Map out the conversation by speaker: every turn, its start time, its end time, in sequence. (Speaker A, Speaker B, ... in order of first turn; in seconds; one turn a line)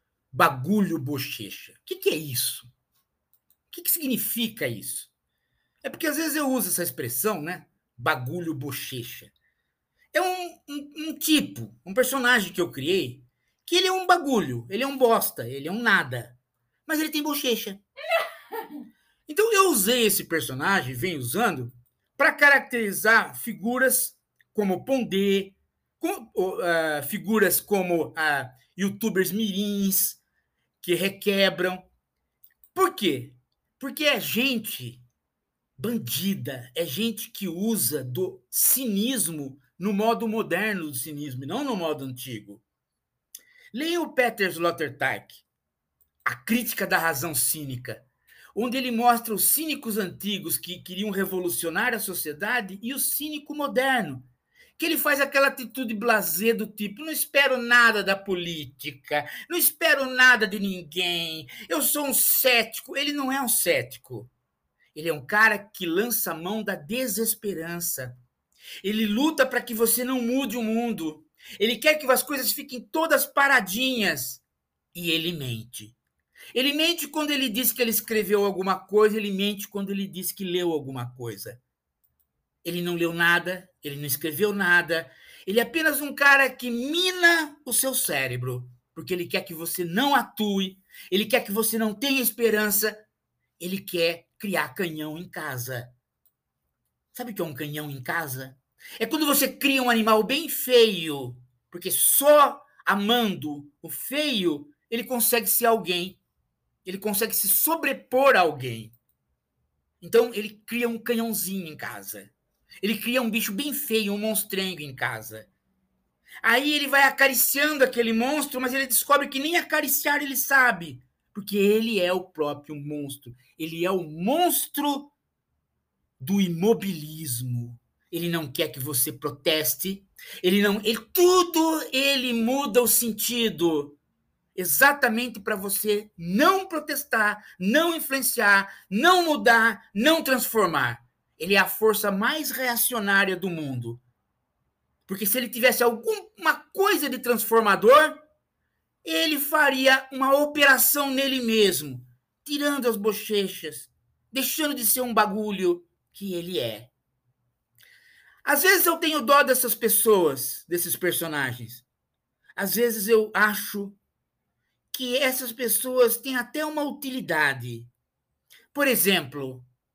Speaker A: 0.3-2.7
Speaker A: 3.7-5.1
Speaker A: 5.8-9.3
Speaker A: 10.1-17.8
Speaker A: 19.3-30.2
Speaker A: 30.8-31.9
Speaker A: 32.7-35.0
Speaker A: 35.8-42.6
Speaker A: 43.7-45.4
Speaker A: 46.2-54.2
Speaker A: 54.8-64.3
Speaker A: 64.9-68.2
Speaker A: 68.8-76.0
Speaker A: 76.5-81.6
Speaker A: 82.6-93.0
Speaker A: 93.6-95.9
Speaker A: 97.1-106.2
Speaker A: 106.8-109.0
Speaker A: 110.0-115.5
Speaker A: 116.4-125.1
Speaker A: 126.2-134.0
Speaker A: 134.6-144.0
Speaker A: 145.1-148.2
Speaker A: 149.0-156.9
Speaker A: 158.4-161.8
Speaker A: 162.6-164.0
Speaker A: 164.9-167.9
Speaker A: 168.7-169.7